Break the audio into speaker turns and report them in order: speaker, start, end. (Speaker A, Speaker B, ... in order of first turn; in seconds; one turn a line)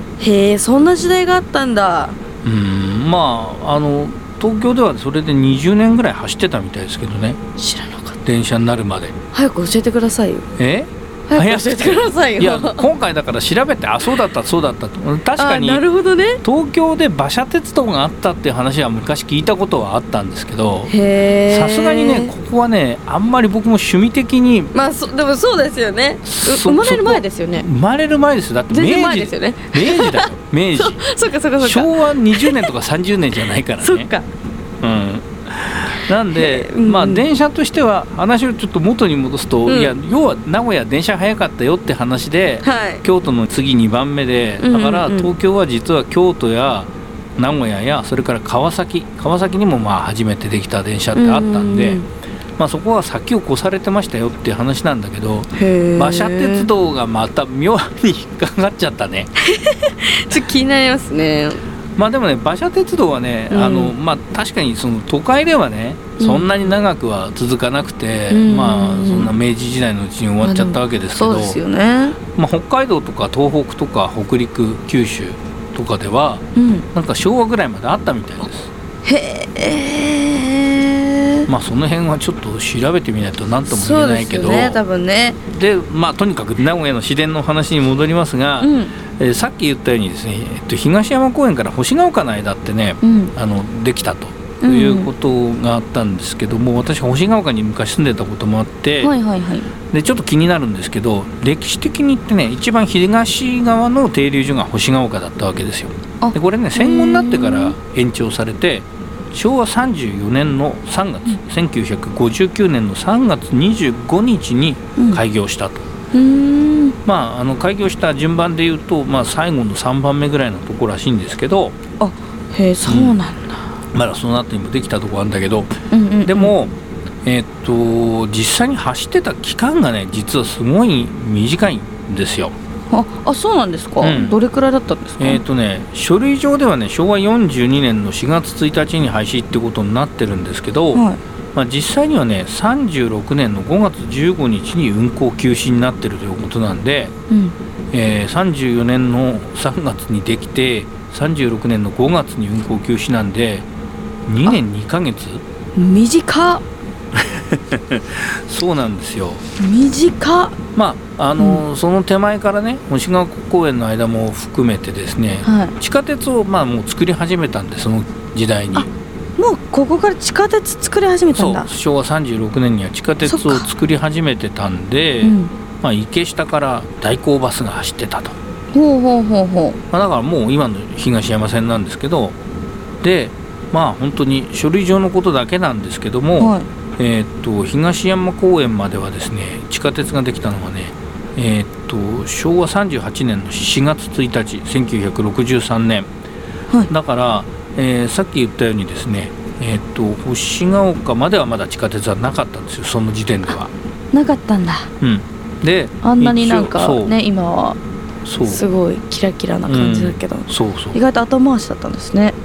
Speaker A: 0.2-2.2
Speaker B: 2.4-7.4
Speaker A: 7.6-8.2
Speaker B: 8.2-9.1
Speaker A: 9.3-10.4
Speaker B: 10.6-15.8
Speaker A: 11.3-12.8
Speaker A: 15.4-16.4
Speaker B: 16.4-20.9
Speaker A: 20.9-22.3
Speaker B: 21.4-24.7
Speaker A: 24.7-27.6
Speaker B: 26.2-31.0
Speaker A: 28.7-32.7
Speaker B: 31.6-34.1
Speaker A: 33.8-34.3
Speaker B: 34.8-52.0
Speaker A: 36.3-37.2
Speaker A: 39.6-40.0
Speaker A: 42.6-43.0
Speaker A: 44.6-45.3
Speaker A: 51.1-52.1
Speaker B: 52.6-59.3
Speaker A: 55.5-56.7
Speaker A: 59.4-61.6
Speaker B: 62.0-71.6
Speaker A: 63.5-63.9
Speaker A: 66.2-66.7
Speaker A: 68.3-69.3
Speaker A: 70.4-72.2
Speaker B: 72.3-78.7
Speaker A: 76.5-76.8
Speaker A: 79.0-81.5
Speaker B: 81.5-84.8
Speaker A: 83.7-85.4
Speaker B: 85.5-99.1
Speaker A: 88.6-89.0
Speaker A: 93.0-93.3
Speaker A: 94.6-95.1
Speaker A: 99.0-99.7
Speaker B: 99.9-115.9
Speaker A: 106.2-107.7
Speaker A: 116.1-116.9
Speaker B: 117.0-121.8
Speaker A: 122.0-123.7
Speaker B: 122.8-123.2
Speaker B: 123.9-132.5
Speaker A: 125.9-126.5
Speaker A: 132.9-135.4
Speaker B: 134.0-134.4
Speaker B: 135.2-147.1
Speaker A: 140.9-141.2
Speaker A: 147.3-147.5
Speaker B: 147.9-153.7
Speaker B: 154.3-155.4
Speaker A: 155.8-156.6
Speaker B: 157.1-159.4
Speaker A: 159.6-160.6
Speaker B: 160.7-168.9
Speaker A: 161.4-161.6
Speaker A: 165.4-165.7
Speaker A: 168.7-171.7
Speaker B: 171.3-178.4
Speaker A: 173.3-173.7
Speaker A: 175.2-175.5
Speaker A: 178.7-179.8
Speaker B: 179.9-182.4
Speaker B: 183.0-196.1
Speaker A: 186.4-186.7
Speaker B: 196.9-203.7
Speaker A: 204.1-204.9
Speaker B: 205.0-207.2
Speaker A: 206.0-207.8
Speaker B: 208.2-208.7
Speaker A: 208.4-212.3
Speaker B: 209.7-211.0